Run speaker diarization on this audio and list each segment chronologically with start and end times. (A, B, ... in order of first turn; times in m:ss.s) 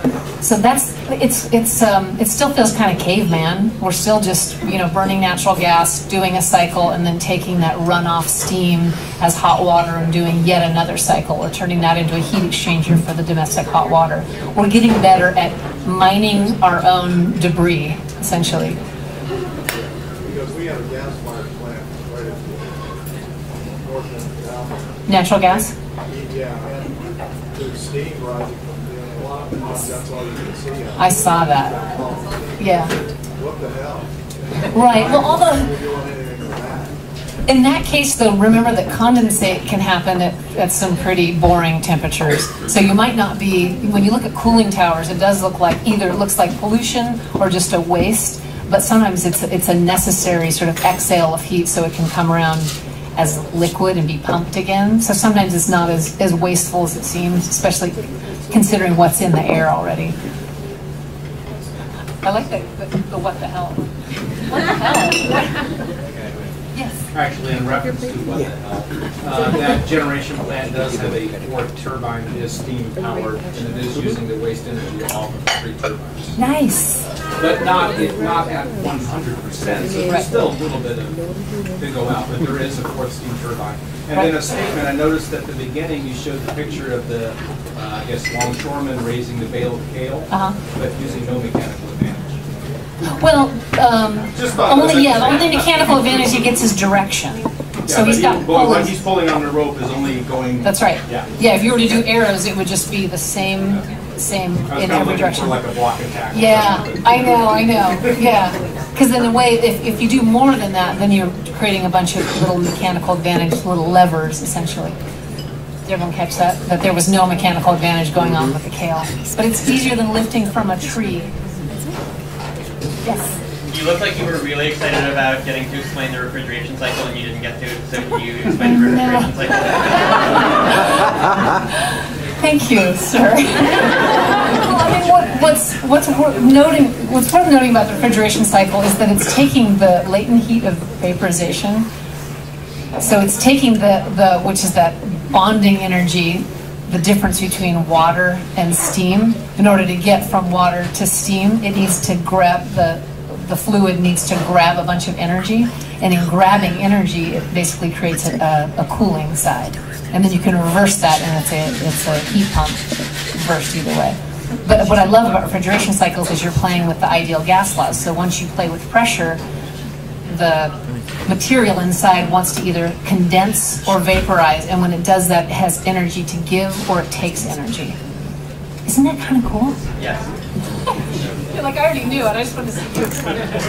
0:00.4-0:18.8 A
0:19.7-0:22.8 B
0:23.8-0:27.0 B
0:25.1-0:25.7 A
0:27.5-0:32.7 B
0:31.0-0:31.8 A
0:32.6-0:32.9 A
0:33.4-0:36.9 B
0:34.7-0:35.7 A
0:37.5-1:00.2 A
1:02.2-1:03.9 A
1:04.5-1:05.5 A
1:06.2-1:06.5 C
1:07.1-1:16.3 C
1:16.4-1:17.0 A
1:17.4-1:21.2 C
1:21.8-1:32.4 C
1:24.1-1:24.6 A
1:30.3-1:30.6 A
1:33.0-1:39.0 A
1:34.3-1:36.5 C
1:37.9-1:41.3 C
1:40.6-1:45.6 A
1:44.7-1:47.5 C
1:46.3-1:55.0 A
1:55.9-2:01.3 A
2:03.0-2:03.3 A
2:03.7-2:10.2 D
2:08.7-2:09.3 A
2:12.4-2:21.9 A
2:23.0-2:42.8 A
2:43.4-2:49.4 A
2:50.3-2:50.7 A
2:51.3-2:58.0 A
2:58.9-2:59.8 A
3:00.0-3:00.3 D
3:01.5-3:03.4 A